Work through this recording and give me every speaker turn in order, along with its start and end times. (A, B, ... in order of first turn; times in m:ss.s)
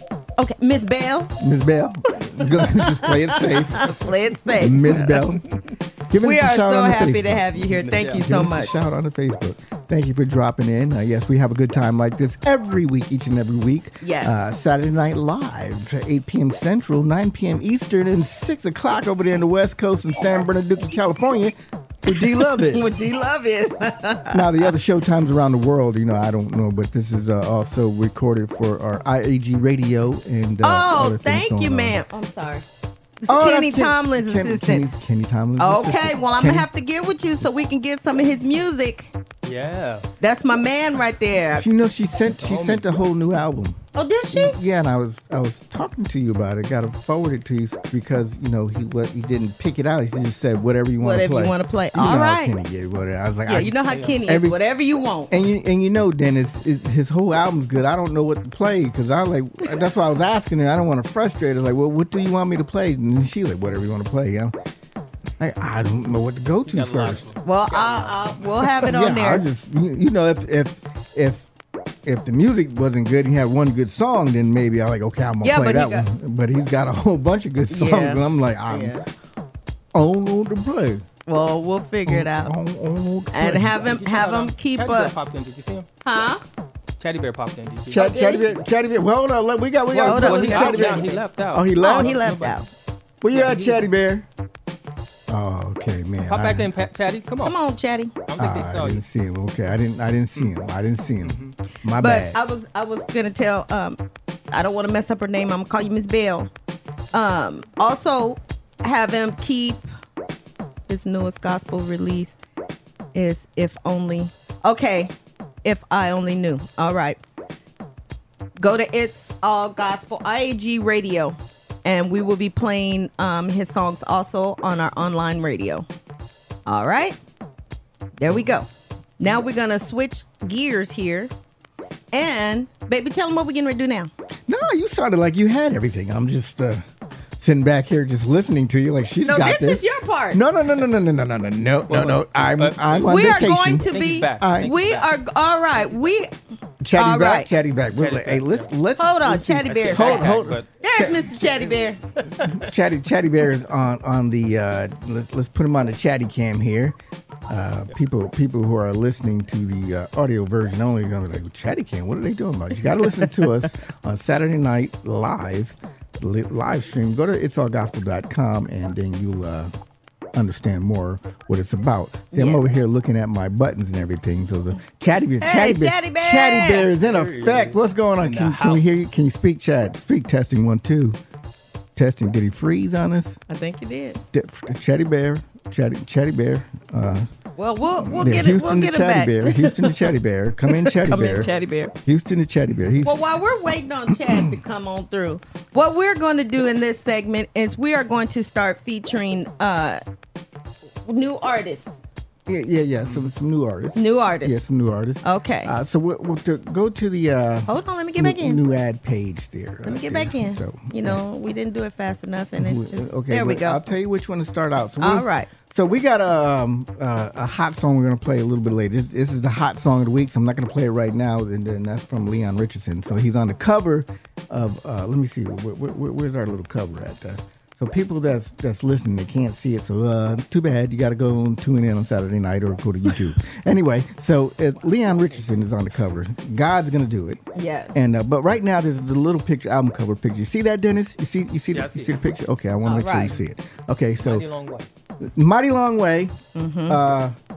0:00.4-0:01.3 A
0:01.4-0:05.5 B
0:02.4-0:05.2 A
0:06.1-0:22.9 B
0:06.2-0:08.8 A
0:07.9-0:08.2 C
0:14.0-0:14.4 A
0:22.1-0:24.7 A
0:24.3-0:32.0 B
0:30.6-0:32.7 A
0:33.2-0:34.9 A
0:33.3-0:36.7 B
0:35.6-0:39.1 A
0:39.4-0:40.1 C
0:40.2-0:41.7 A
0:41.5-0:43.8 B
0:42.4-0:42.9 C
0:44.0-0:44.6 A
0:44.3-0:54.6 B
0:51.0-0:52.5 A
0:53.5-0:55.4 A
0:53.9-0:54.2 C
0:55.3-1:04.6 B
1:05.4-1:07.3 B
1:06.6-1:08.0 C
1:07.4-1:09.5 A
1:08.7-1:11.5 B
1:12.1-1:19.0 B
1:15.4-1:16.0 A
1:17.7-1:19.0 A
1:19.9-1:21.1 B
1:21.3-1:22.5 A
1:22.1-1:24.0 B
1:23.3-1:25.1 A
1:23.9-1:25.9 C
1:26.0-1:26.4 A
1:27.0-1:28.1 C
1:27.9-1:32.2 B
1:27.9-1:28.5 A
1:30.0-1:31.2 A
1:30.0-1:32.6 C
1:31.8-1:32.7 A
1:33.2-1:34.3 B
1:35.3-1:36.8 B
1:36.2-1:37.6 C
1:37.4-1:38.1 A
1:38.3-1:39.0 C
1:38.4-1:42.4 B
1:41.2-1:41.5 C
1:42.0-1:44.0 A
1:44.5-1:46.5 A
1:47.1-1:49.9 A
1:50.9-1:52.4 A
1:53.1-1:57.2 A
1:58.6-2:05.9 A
2:06.7-2:07.2 A
2:08.2-2:08.7 A
2:09.2-2:11.3 A
2:12.1-2:14.1 A
2:14.5-2:16.8 B
2:17.4-2:24.8 B
2:19.3-2:20.4 A
2:21.9-2:25.1 C
2:23.0-2:26.3 A
2:26.8-2:31.8 B
2:26.9-2:27.5 A
2:27.9-2:28.7 C
2:29.0-2:32.0 A
2:29.6-2:30.7 C
2:32.3-2:32.6 C
2:32.4-2:37.0 B
2:37.5-2:49.7 B
2:50.3-3:01.2 B
2:52.3-2:52.7 A
2:55.4-2:56.9 A
2:57.1-2:58.9 C
3:02.0-3:03.4 B
3:03.5-3:04.2 A
3:04.3-3:07.3 B
3:07.6-3:10.1 A
3:08.0-3:11.5 B
3:10.7-3:11.9 A
3:12.0-3:13.2 B
3:13.0-3:20.0 A
3:14.1-3:14.4 B
3:21.1-3:22.0 A
3:22.5-3:31.2 B
3:24.0-3:24.6 A
3:25.2-3:25.7 A
3:27.7-3:28.6 A
3:29.8-3:33.8 A
3:32.6-3:57.4 B
3:35.0-3:35.5 A
3:57.6-3:58.0 A
3:57.9-4:04.5 B
4:01.7-4:02.2 C
4:02.8-4:03.3 A
4:04.2-4:04.9 C
4:05.2-4:06.4 B
4:06.6-4:07.0 A
4:06.9-4:07.4 B